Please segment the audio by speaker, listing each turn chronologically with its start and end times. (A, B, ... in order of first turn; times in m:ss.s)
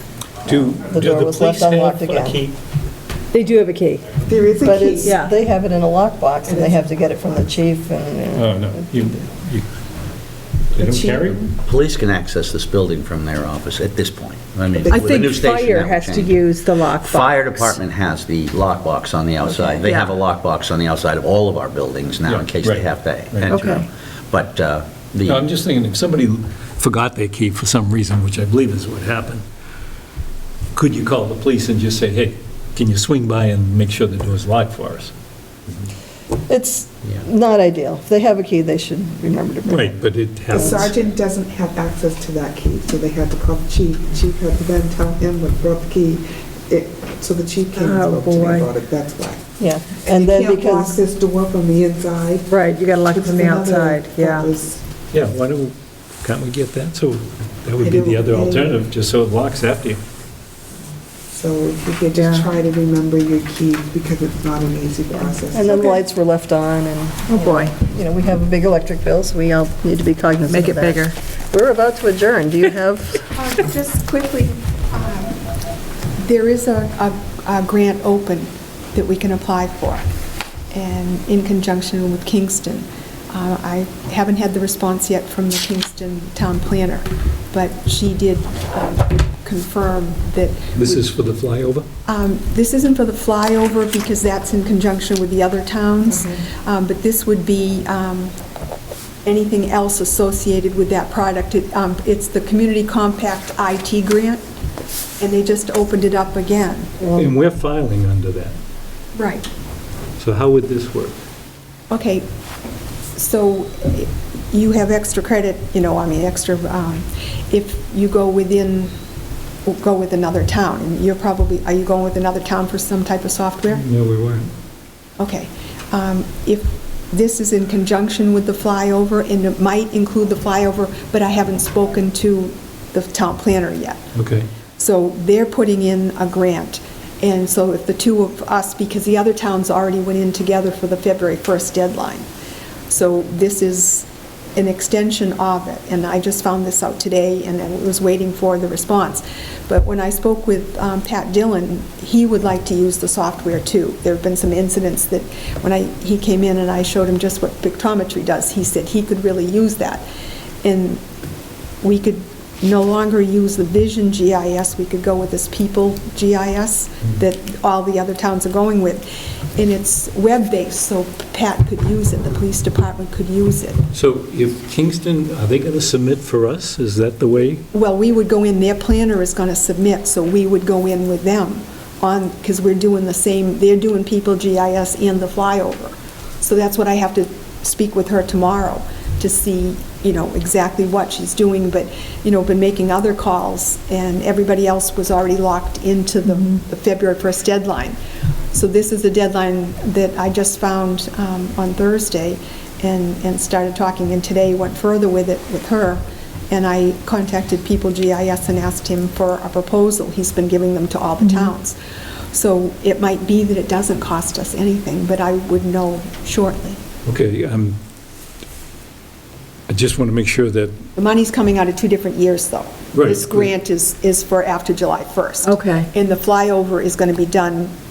0:00.4-0:02.6 A
0:00.7-0:02.4 B
0:03.3-0:04.1 C
0:04.2-0:05.2 D
0:04.6-0:09.2 B
0:05.0-0:05.4 C
0:06.4-0:06.9 D
0:08.3-0:09.7 A
0:10.8-0:11.4 A
0:10.8-0:11.5 D
0:11.6-0:16.3 E
0:14.8-0:17.8 C
0:16.9-0:25.4 E
0:19.4-0:20.1 C
0:22.3-0:23.6 A
0:23.4-0:23.9 C
0:25.2-0:29.4 A
0:30.7-0:35.1 A
0:36.5-0:40.0 B
0:39.7-0:41.0 A
0:40.5-0:40.9 B
0:40.5-0:49.5 D
0:47.7-0:48.7 C
0:49.6-0:51.0 B
0:50.0-0:52.5 D
0:52.5-0:54.5 C
0:53.1-0:54.8 D
0:55.1-1:00.0 A
0:57.8-0:58.8 D
1:01.3-1:06.0 D
1:02.1-1:02.5 C
1:05.2-1:13.3 B
1:07.3-1:07.7 C
1:10.5-1:11.2 C
1:13.3-1:15.4 F
1:16.2-1:20.0 F
1:20.7-1:31.0 F
1:30.8-1:31.8 A
1:32.0-1:38.3 F
1:36.1-1:36.4 D
1:39.2-1:44.4 F
1:45.2-1:47.0 F
1:47.0-1:48.6 A
1:49.2-1:49.5 F
1:50.2-1:51.2 A
1:51.9-1:52.2 F
1:53.2-1:58.9 F
1:59.7-2:03.8 F
2:03.7-2:04.5 A
2:05.2-2:14.0 F
2:14.2-2:14.5 A
2:14.8-2:22.2 F
2:22.9-2:40.0 F
2:40.6-2:41.0 F
2:41.8-2:53.8 F
2:53.9-2:57.6 A
2:57.7-3:18.0 F
3:16.3-3:16.6 C
3:18.5-3:31.8 F
3:31.2-3:31.5 C
3:32.3-3:36.8 F
3:37.1-3:37.8 A
3:39.7-3:40.8 A
3:41.0-3:47.7 F
3:42.9-3:43.5 A
3:45.4-3:45.9 C